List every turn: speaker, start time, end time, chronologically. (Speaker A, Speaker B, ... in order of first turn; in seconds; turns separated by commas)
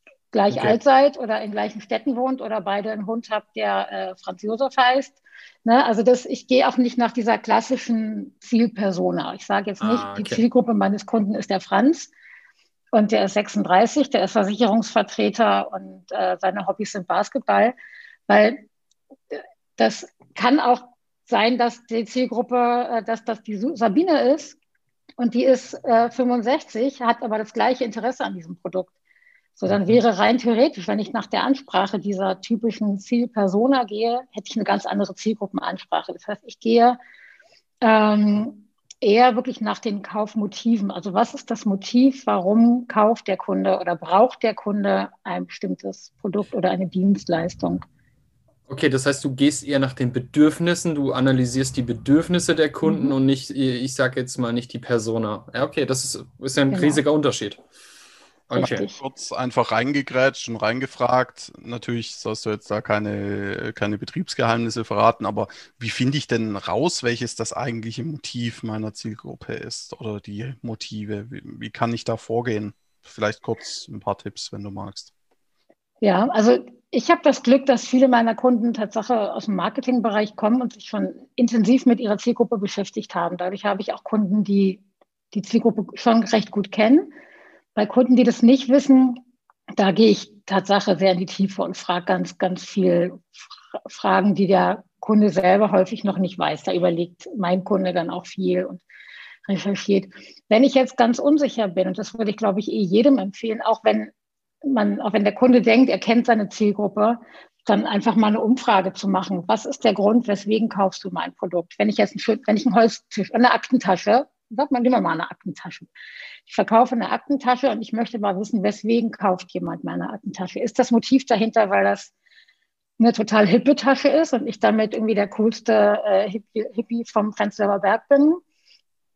Speaker A: 0.3-12.1, Speaker B: 0.5-0.8, Speaker B: 9.8-10.4, Speaker A: 12.9-17.8, Speaker A: 18.3-18.6, Speaker A: 19.3-24.6, Speaker A: 25.2-28.9, Speaker A: 29.6-37.0, Speaker B: 29.7-30.0, Speaker A: 37.8-47.8, Speaker B: 48.7-57.6, Speaker A: 52.8-53.1, Speaker A: 56.7-57.0, Speaker B: 58.5-58.9, Speaker A: 58.5-59.0, Speaker C: 59.0-75.1, Speaker A: 76.0-84.8, Speaker A: 85.3-87.1, Speaker A: 87.8-89.2, Speaker A: 89.8-93.3, Speaker A: 93.8-98.8, Speaker A: 99.5-104.1, Speaker A: 104.6-115.9, Speaker A: 116.5-122.1, Speaker A: 123.0-128.4